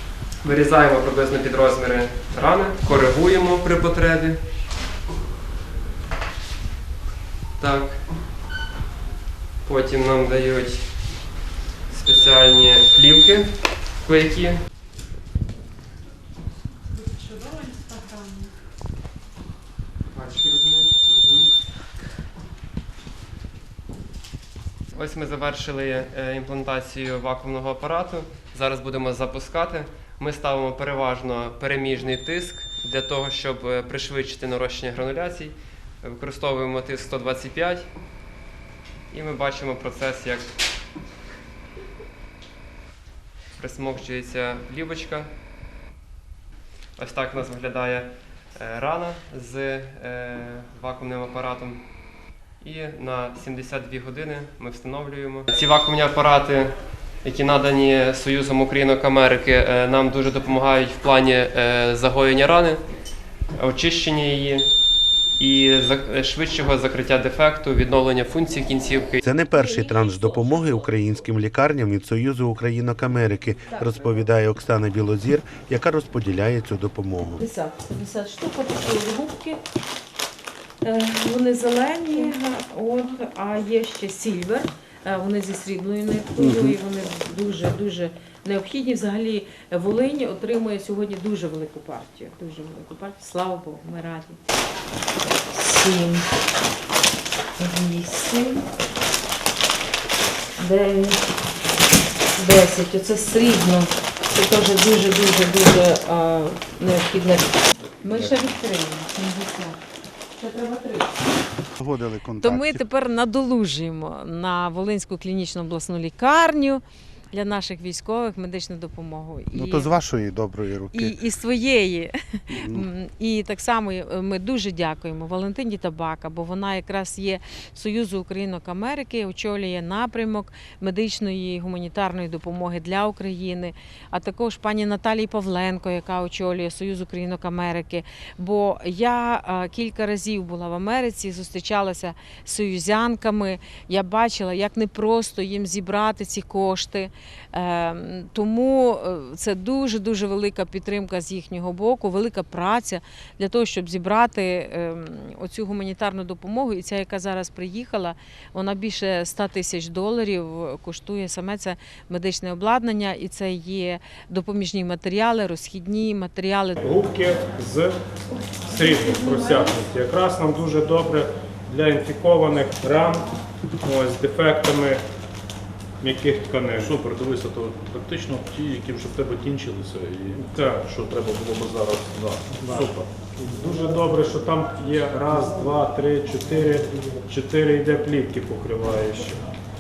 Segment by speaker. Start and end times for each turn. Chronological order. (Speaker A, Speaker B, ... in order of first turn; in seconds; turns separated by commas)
Speaker A: 0.4-4.4, Speaker A: 7.6-8.0, Speaker A: 9.6-14.6, Speaker A: 20.1-21.5, Speaker A: 24.9-37.9, Speaker A: 39.1-40.5, Speaker A: 43.6-45.3, Speaker A: 47.0-52.0, Speaker A: 52.6-62.8, Speaker A: 63.5-64.7, Speaker A: 65.4-69.2, Speaker B: 69.2-77.4, Speaker C: 69.6-69.8, Speaker C: 77.4-79.6, Speaker C: 80.8-94.4, Speaker C: 95.5-96.2, Speaker C: 97.6-98.6, Speaker C: 100.6-101.2, Speaker C: 102.3-109.8, Speaker C: 110.4-111.1, Speaker B: 111.8-112.8, Speaker C: 112.4-120.0, Speaker B: 119.5-121.1, Speaker C: 120.9-166.8, Speaker B: 122.5-122.8, Speaker D: 166.8-167.9, Speaker D: 168.6-173.3, Speaker D: 173.8-175.0, Speaker D: 176.0-176.9, Speaker E: 176.8-183.1, Speaker D: 180.4-180.8, Speaker D: 182.6-189.4